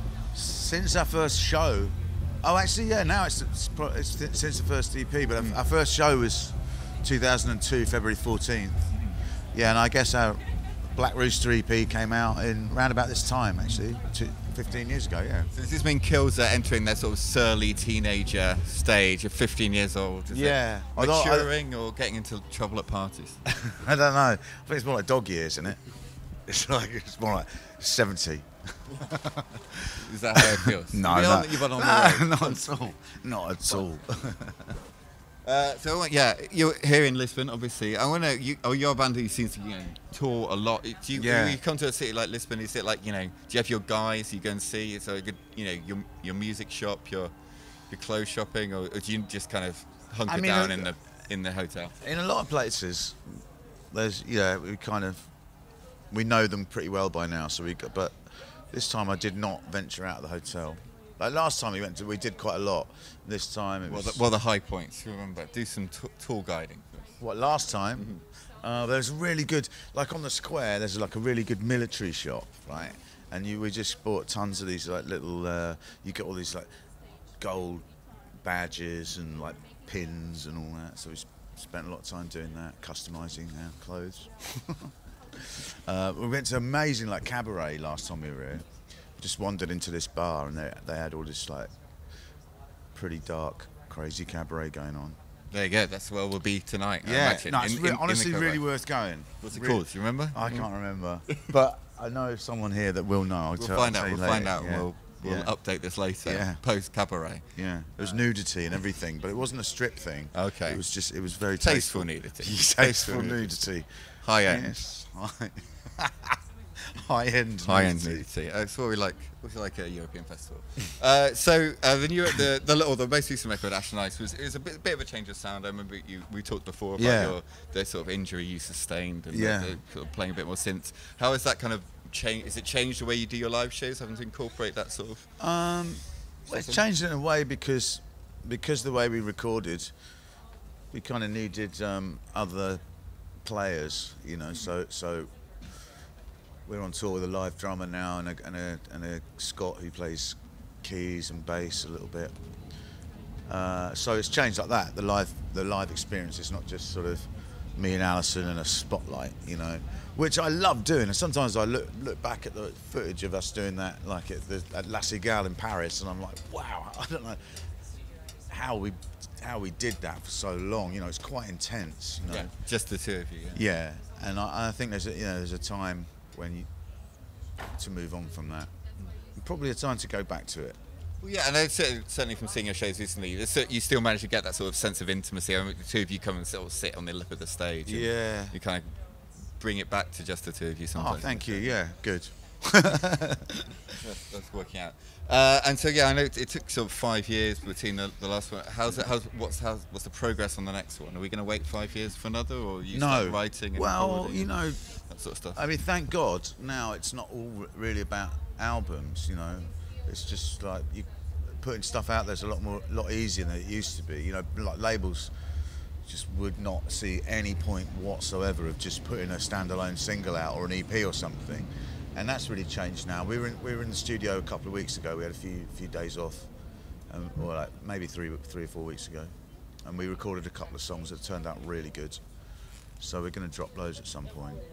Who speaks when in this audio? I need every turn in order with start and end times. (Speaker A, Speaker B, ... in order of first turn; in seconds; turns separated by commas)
Speaker A: 0.3-8.9, Speaker B: 8.9-9.2, Speaker A: 9.5-15.5, Speaker B: 15.5-23.4, Speaker A: 20.3-21.5, Speaker A: 23.7-25.8, Speaker A: 26.5-28.4, Speaker A: 29.0-29.6, Speaker B: 29.9-32.6, Speaker A: 30.9-34.7, Speaker B: 35.4-51.9, Speaker A: 41.1-41.6, Speaker A: 50.3-50.9, Speaker A: 52.0-53.4, Speaker A: 53.9-55.3, Speaker A: 56.1-58.1, Speaker A: 58.7-64.2, Speaker B: 63.8-67.1, Speaker A: 67.2-76.7, Speaker B: 68.0-68.2, Speaker A: 77.4-77.9, Speaker A: 78.4-84.9, Speaker A: 85.8-88.7, Speaker A: 89.2-91.7, Speaker A: 92.9-95.2, Speaker B: 95.5-98.6, Speaker A: 97.0-105.5, Speaker B: 99.4-100.7, Speaker B: 103.6-107.4, Speaker A: 106.2-106.6, Speaker A: 107.5-113.9, Speaker B: 110.3-110.8, Speaker B: 111.6-113.6, Speaker B: 114.2-114.7, Speaker A: 114.4-116.3, Speaker A: 116.9-118.2, Speaker B: 117.6-135.3, Speaker A: 127.0-127.4, Speaker A: 129.3-129.8, Speaker A: 135.4-139.9, Speaker B: 136.5-136.8, Speaker A: 140.9-142.8, Speaker A: 143.4-145.3, Speaker A: 146.7-152.3, Speaker A: 153.5-167.6, Speaker A: 168.5-172.5, Speaker B: 172.2-173.6, Speaker A: 173.5-176.7, Speaker A: 177.8-178.7, Speaker A: 179.4-180.8, Speaker B: 181.2-188.9, Speaker A: 187.8-188.6, Speaker B: 189.5-191.8, Speaker A: 190.9-193.6, Speaker B: 194.0-205.6, Speaker A: 202.9-204.9, Speaker A: 205.5-211.1, Speaker A: 211.6-215.3, Speaker A: 216.0-226.5, Speaker A: 227.1-229.3, Speaker A: 229.8-232.2, Speaker A: 233.0-234.6